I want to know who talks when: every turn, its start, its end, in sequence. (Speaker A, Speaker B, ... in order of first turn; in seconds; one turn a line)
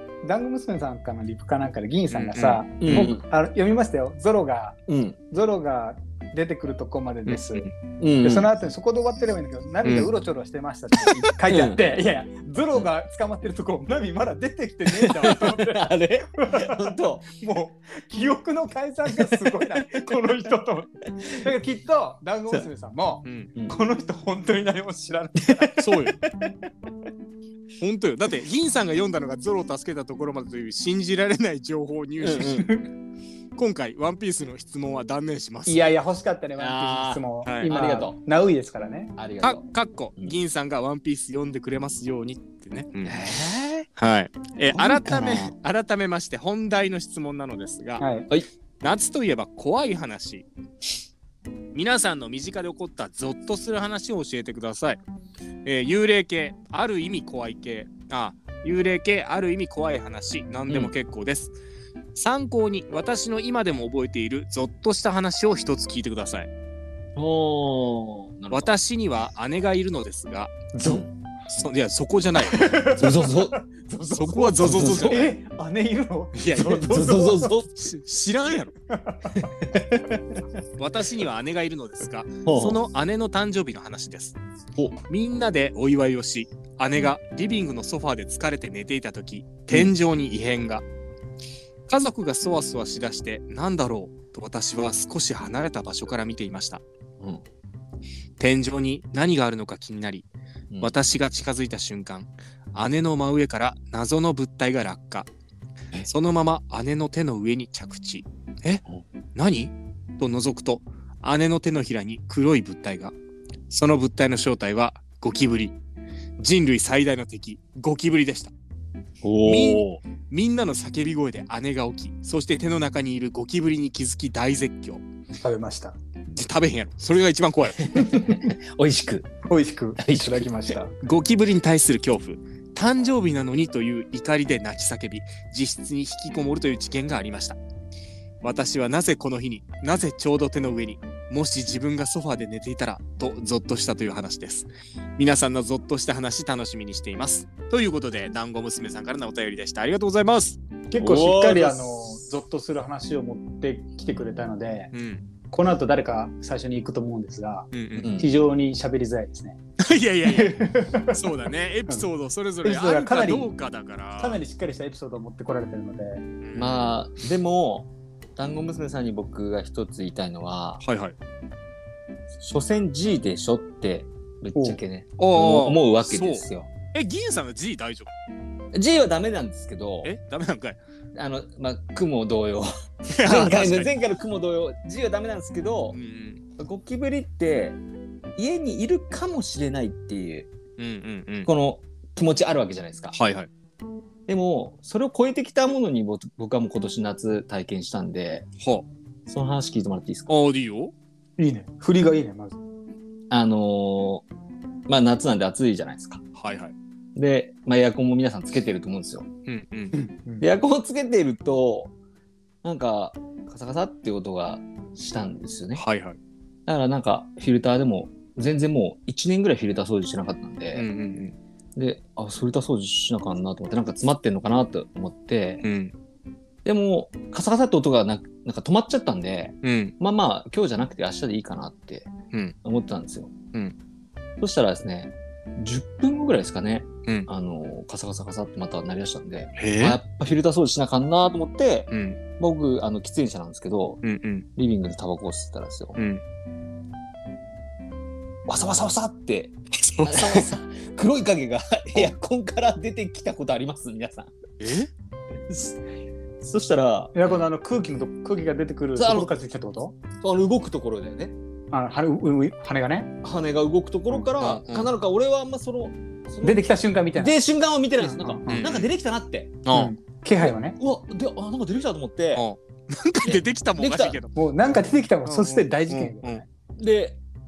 Speaker A: 0.2-4.8
Speaker B: 2.1-3.1
Speaker C: 2.8-3.2
Speaker C: 4.9-5.2
Speaker A: 5.3-7.7
Speaker B: 7.3-7.7
Speaker C: 8.0-8.5
Speaker A: 8.2-25.9
Speaker C: 11.4-11.9
Speaker C: 14.9-17.2
Speaker C: 19.1-19.7
Speaker C: 25.5-26.6
Speaker B: 25.8-26.2
Speaker B: 27.8-32.8
Speaker C: 32.2-32.8
Speaker A: 32.5-32.9
Speaker B: 33.6-35.9
Speaker A: 35.7-39.1
Speaker C: 36.6-38.2
Speaker B: 37.5-37.7
Speaker C: 39.2-39.7
Speaker B: 39.4-43.2
Speaker C: 43.0-43.9
Speaker B: 44.0-48.0
Speaker C: 44.8-45.5
Speaker A: 44.8-45.5
Speaker A: 48.0-48.3
Speaker B: 48.8-50.5
Speaker B: 51.7-55.0
Speaker B: 55.6-61.5
Speaker C: 60.7-60.9
Speaker B: 62.1-66.5
Speaker C: 67.2-68.7
Speaker B: 68.5-70.6
Speaker A: 70.7-71.1
Speaker C: 70.8-71.1
Speaker B: 71.5-73.0
Speaker A: 72.5-77.5
Speaker C: 72.9-73.6
Speaker B: 74.2-75.3
Speaker C: 74.5-75.3
Speaker B: 76.3-78.8
Speaker C: 76.6-77.9
Speaker A: 78.9-79.5
Speaker C: 79.3-80.4
Speaker B: 80.8-84.4
Speaker C: 82.5-82.8
Speaker C: 84.8-85.0
Speaker B: 85.1-90.8
Speaker B: 91.9-96.8
Speaker B: 98.4-100.3
Speaker B: 100.8-105.3
Speaker B: 106.1-108.8
Speaker B: 109.3-113.2
Speaker B: 113.7-115.8
Speaker B: 116.4-118.5
Speaker C: 119.2-119.9
Speaker B: 119.4-125.0
Speaker A: 125.4-126.0
Speaker B: 126.3-128.1
Speaker C: 127.8-129.3
Speaker A: 128.0-128.3
Speaker A: 129.5-131.0
Speaker C: 130.0-130.8
Speaker B: 131.0-137.6
Speaker B: 138.4-150.6
Speaker A: 150.9-154.9
Speaker C: 151.0-152.0
Speaker B: 154.9-155.2
Speaker A: 155.5-159.6
Speaker B: 157.7-158.2
Speaker C: 158.0-158.3
Speaker B: 159.8-164.4
Speaker A: 160.2-161.2
Speaker A: 162.6-163.5
Speaker A: 164.2-166.2
Speaker B: 166.4-166.9
Speaker C: 166.6-170.8
Speaker B: 170.8-171.2
Speaker C: 172.4-176.7
Speaker B: 175.2-178.1
Speaker C: 178.7-180.1
Speaker B: 180.0-180.8
Speaker C: 181.2-186.0
Speaker B: 183.1-183.9
Speaker B: 185.9-186.4
Speaker C: 186.6-187.8
Speaker C: 188.4-190.5
Speaker B: 190.8-191.5
Speaker C: 191.5-193.2
Speaker B: 193.2-193.5
Speaker C: 194.3-198.5
Speaker B: 198.6-198.9
Speaker C: 199.3-200.3
Speaker B: 200.3-200.9
Speaker A: 201.4-202.6
Speaker C: 203.3-204.3
Speaker C: 204.9-206.2
Speaker B: 206.4-206.7
Speaker C: 207.2-209.3
Speaker B: 209.5-210.0
Speaker A: 209.9-210.5
Speaker C: 210.4-211.9
Speaker C: 212.6-215.8
Speaker B: 215.8-216.2
Speaker C: 216.7-220.9
Speaker B: 220.8-221.4
Speaker C: 221.8-225.6
Speaker B: 225.6-225.9
Speaker C: 226.7-232.1
Speaker B: 229.6-229.9
Speaker C: 232.6-233.3
Speaker C: 234.4-244.0
Speaker B: 239.6-240.0
Speaker B: 241.9-242.2
Speaker B: 244.0-244.5
Speaker C: 244.6-246.0
Speaker B: 246.0-246.2
Speaker C: 248.5-254.3
Speaker B: 249.8-250.5
Speaker B: 254.6-254.9
Speaker C: 255.3-255.8
Speaker C: 256.4-257.4
Speaker A: 257.1-260.0
Speaker C: 259.0-259.3
Speaker C: 260.2-261.4
Speaker A: 261.7-263.1
Speaker C: 263.2-269.6
Speaker B: 264.4-264.9
Speaker A: 266.4-267.4
Speaker A: 268.0-268.7
Speaker B: 268.5-268.9
Speaker B: 269.6-269.9
Speaker A: 269.7-270.8
Speaker C: 270.4-272.5
Speaker B: 272.4-274.3
Speaker C: 273.2-274.2
Speaker A: 274.4-276.4
Speaker B: 275.2-276.4
Speaker C: 276.8-277.2